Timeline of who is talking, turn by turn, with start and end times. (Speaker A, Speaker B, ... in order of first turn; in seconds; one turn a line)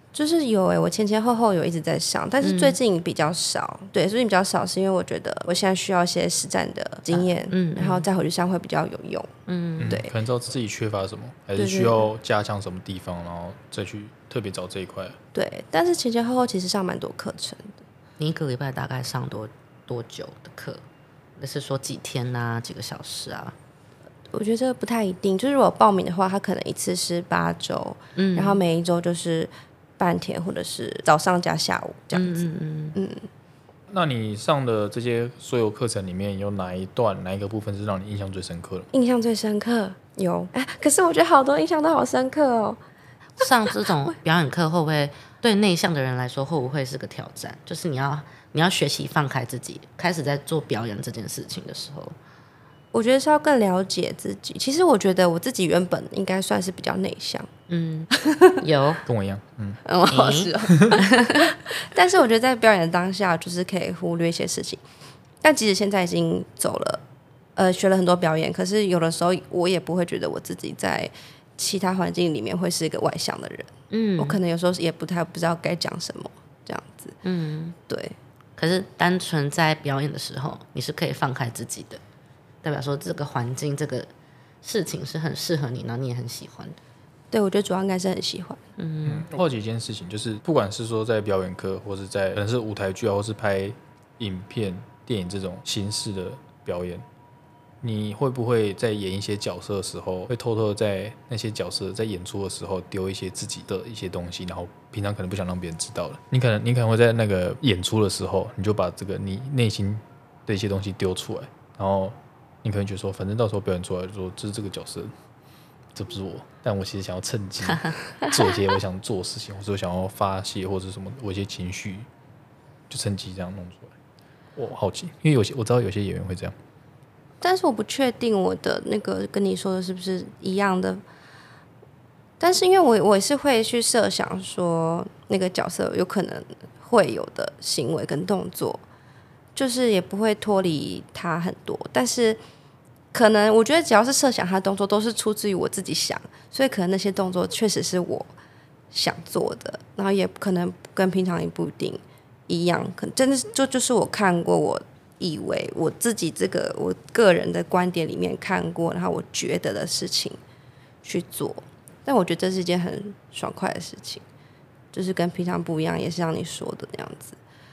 Speaker A: 0.1-9.3
Speaker B: 2.4-2.8
Speaker B: 7.1-8.1
Speaker B: 9.5-10.0
Speaker C: 9.8-15.2
Speaker A: 9.9-10.1
Speaker A: 11.6-12.1
Speaker A: 15.3-17.8
Speaker B: 18.2-20.8
Speaker B: 21.4-23.5
Speaker A: 24.3-33.2
Speaker B: 28.1-28.6
Speaker B: 32.1-33.0
Speaker C: 33.9-38.9
Speaker A: 38.9-42.8
Speaker B: 43.4-52.1
Speaker A: 52.9-57.5
Speaker B: 57.7-59.0
Speaker A: 58.1-58.6
Speaker C: 59.0-59.8
Speaker A: 59.8-64.8
Speaker B: 60.1-61.5
Speaker A: 65.4-67.0
Speaker A: 67.5-77.2
Speaker B: 73.9-74.4
Speaker B: 77.2-77.8
Speaker A: 77.9-78.1
Speaker B: 78.6-82.0
Speaker B: 82.6-84.1
Speaker B: 84.6-86.8
Speaker A: 87.3-88.6
Speaker B: 88.8-89.3
Speaker C: 89.0-97.0
Speaker C: 97.8-115.1
Speaker C: 115.9-122.1
Speaker C: 122.9-123.9
Speaker C: 124.5-126.5
Speaker A: 127.4-131.0
Speaker A: 132.4-138.8
Speaker A: 139.6-142.4
Speaker A: 143.1-148.3
Speaker A: 148.9-160.4
Speaker A: 161.0-164.2
Speaker A: 164.9-167.4